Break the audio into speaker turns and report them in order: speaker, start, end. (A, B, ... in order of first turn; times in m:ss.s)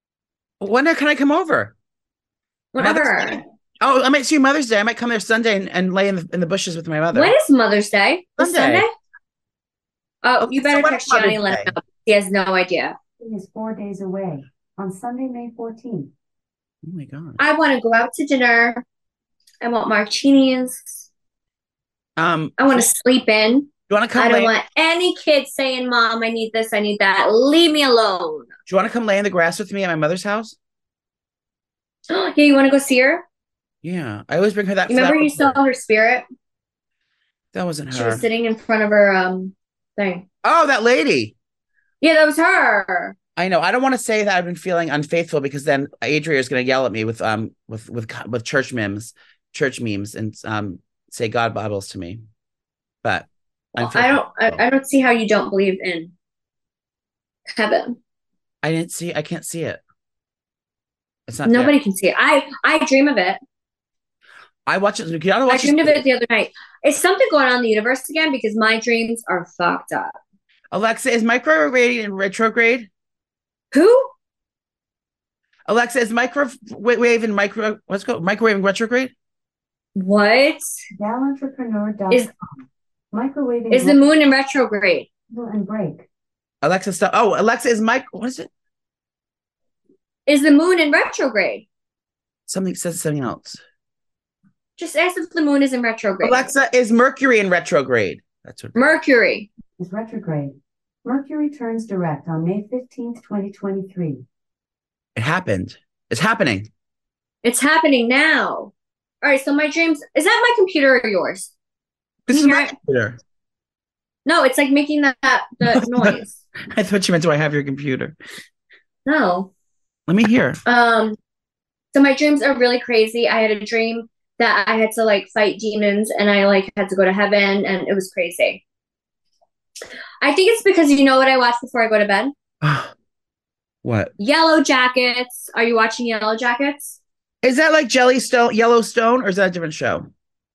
0:00.6-0:01.7 A
0:02.7-0:03.4 B
0:02.8-0:07.3 A
0:07.1-0:08.9 B
0:08.4-0:08.8 A
0:10.2-0:12.9 B
0:10.4-0:11.7 A
0:13.2-0:16.1 C
0:16.8-0:17.4 A
0:17.4-0:18.8 B
0:19.6-0:21.0 B
0:22.2-0:22.8 A
0:22.6-0:28.5 B
0:23.9-0:24.5 A
0:28.7-0:30.6 A
0:32.1-0:33.2 B
0:33.8-0:35.6 A
0:34.9-0:36.2 B
0:37.5-0:38.2 A
0:37.9-0:40.2 B
0:40.4-0:41.3 A
0:42.0-0:43.2 B
0:43.4-0:52.2 A
0:53.0-0:54.6 A
0:53.8-0:56.1 B
0:57.5-0:58.0 B
0:58.6-0:59.8 A
1:01.3-1:01.7 A
1:01.4-1:03.4 B
1:04.6-1:06.0 A
1:05.5-1:10.2 B
1:10.7-1:12.9 A
1:13.7-1:14.1 B
1:15.7-1:19.1 A
1:19.9-1:20.6 B
1:21.0-1:22.3 C
1:23.1-1:24.0 C
1:23.7-1:25.1 B
1:25.3-1:26.0 C
1:26.6-1:28.5 A
1:30.3-1:31.6 B
1:32.5-1:33.6 A
1:34.8-1:36.5 B
1:36.2-1:38.9 A
1:38.7-1:39.5 B
1:39.8-1:44.2 C
1:45.2-1:46.7 A
1:47.4-1:51.5 B
1:52.3-1:53.2 A
1:52.3-1:52.7 B
1:54.2-1:56.3 B
1:55.6-1:56.2 A
1:56.7-1:58.2 A
1:59.0-1:59.5 B
2:00.1-2:00.6 A
2:00.6-2:01.2 B
2:01.9-2:08.6 B
2:10.2-2:12.3 B
2:12.6-2:12.9 A
2:13.8-2:14.1 A
2:14.2-2:17.0 B
2:17.4-2:20.1 A